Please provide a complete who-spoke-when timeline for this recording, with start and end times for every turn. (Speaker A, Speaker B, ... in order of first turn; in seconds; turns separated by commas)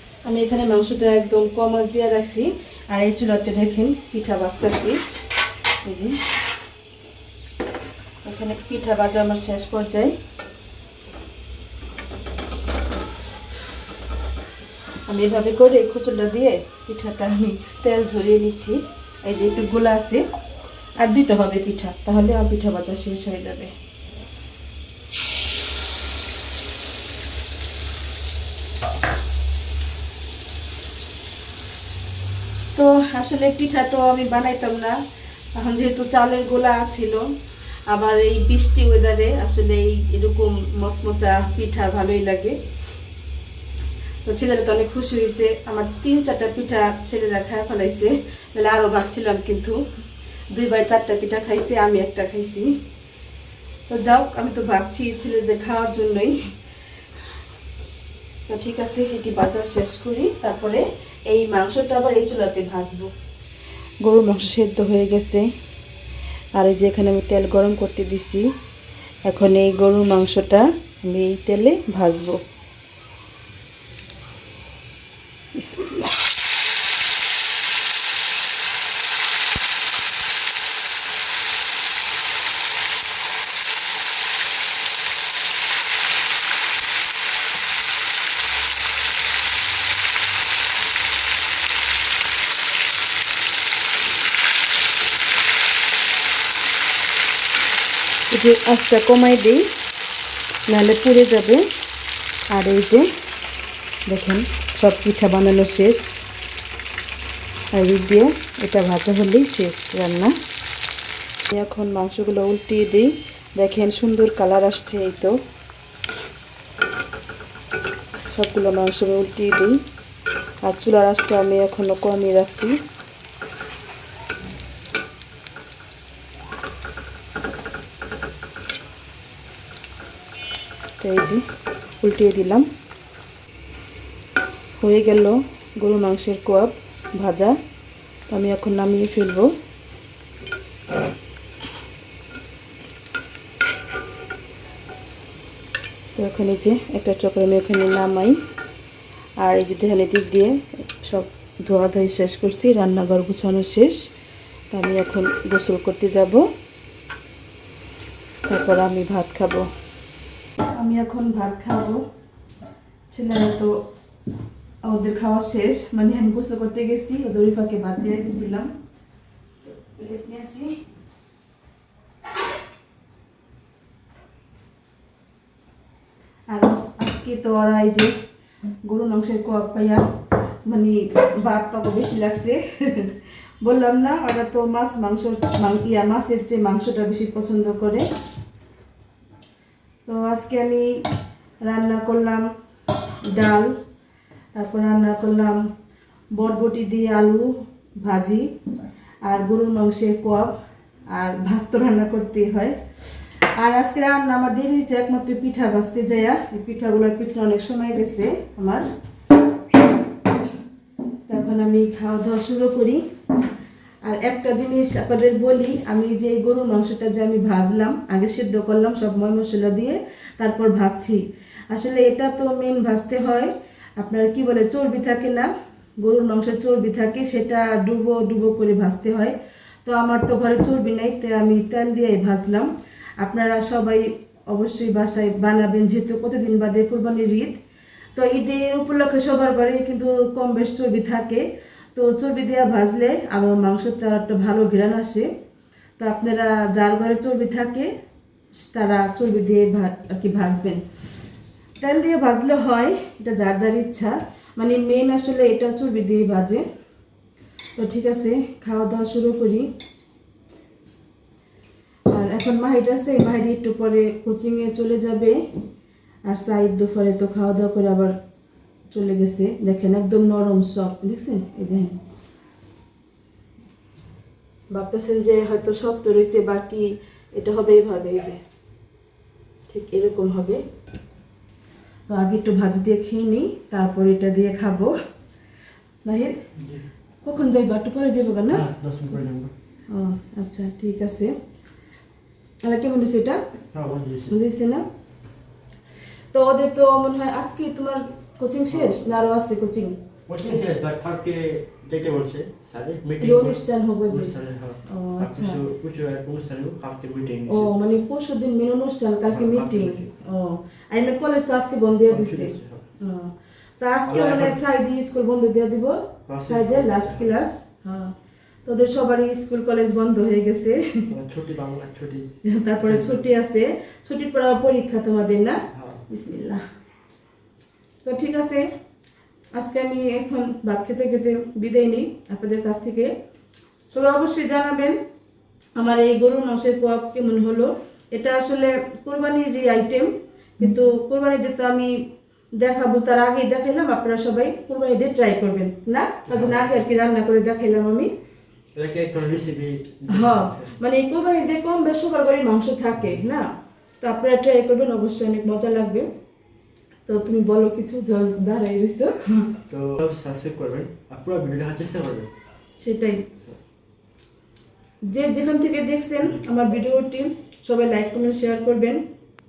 Speaker A: 0.2-5.0, Speaker A: 5.8-6.2, Speaker A: 8.2-10.1, Speaker A: 15.1-20.2, Speaker A: 21.0-23.7, Speaker A: 32.7-35.0, Speaker A: 35.5-37.3, Speaker A: 37.9-42.6, Speaker A: 44.2-49.8, Speaker A: 50.5-52.7, Speaker A: 53.9-56.4, Speaker A: 58.5-63.1, Speaker A: 64.0-65.5, Speaker A: 66.5-68.5, Speaker A: 69.3-72.4, Speaker A: 75.5-76.1, Speaker A: 98.3-99.6, Speaker A: 100.7-101.6, Speaker A: 102.5-103.1, Speaker A: 104.1-106.2, Speaker A: 107.7-110.3, Speaker A: 111.5-115.3, Speaker A: 118.3-119.8, Speaker A: 120.6-122.8, Speaker A: 131.0-131.4, Speaker A: 132.0-132.7, Speaker A: 134.8-137.6, Speaker A: 138.3-139.5, Speaker A: 146.1-148.4, Speaker A: 149.4-154.1, Speaker A: 154.7-156.4, Speaker A: 158.5-159.7, Speaker A: 160.6-162.0, Speaker A: 163.1-163.8, Speaker A: 164.8-168.7, Speaker A: 169.7-170.8, Speaker A: 176.5-178.1, Speaker A: 178.8-180.0, Speaker A: 180.7-188.1, Speaker A: 190.1-190.9, Speaker A: 191.7-192.4, Speaker A: 193.2-193.8, Speaker A: 194.5-195.6, Speaker A: 196.3-198.4, Speaker A: 199.2-200.5, Speaker A: 201.1-202.7, Speaker A: 203.6-208.8, Speaker A: 211.3-213.0, Speaker A: 214.0-225.5, Speaker A: 226.0-229.3, Speaker A: 229.8-237.6, Speaker A: 238.2-241.4, Speaker A: 241.9-245.3, Speaker A: 246.0-247.9, Speaker A: 248.7-250.8, Speaker A: 251.8-256.6, Speaker A: 257.8-259.7, Speaker A: 262.1-265.4, Speaker A: 266.2-268.1, Speaker A: 268.9-272.0, Speaker A: 274.7-278.4, Speaker A: 279.7-280.6, Speaker A: 282.1-284.9, Speaker A: 286.0-286.4, Speaker B: 286.6-286.8, Speaker A: 287.2-288.6, Speaker B: 288.5-289.5, Speaker A: 289.9-291.3, Speaker A: 292.6-293.4, Speaker B: 293.7-294.3, Speaker A: 294.3-294.8, Speaker A: 296.3-299.9, Speaker B: 298.7-299.0, Speaker B: 300.3-307.7, Speaker A: 303.2-304.3, Speaker A: 304.9-305.6, Speaker A: 307.5-318.1, Speaker B: 309.3-310.1, Speaker B: 312.1-312.8, Speaker B: 314.1-314.6, Speaker B: 316.3-317.3, Speaker A: 318.6-321.1, Speaker B: 321.1-322.3, Speaker A: 322.4-326.6, Speaker B: 322.8-323.2, Speaker B: 325.7-326.0, Speaker A: 328.0-328.7, Speaker A: 329.6-333.1, Speaker A: 333.9-335.0, Speaker A: 335.8-342.0, Speaker A: 342.6-348.1, Speaker B: 346.3-346.7, Speaker B: 348.8-350.8, Speaker A: 350.1-353.5, Speaker A: 354.0-356.1, Speaker A: 357.1-359.5, Speaker B: 359.7-362.3, Speaker A: 362.8-363.2, Speaker A: 365.1-369.0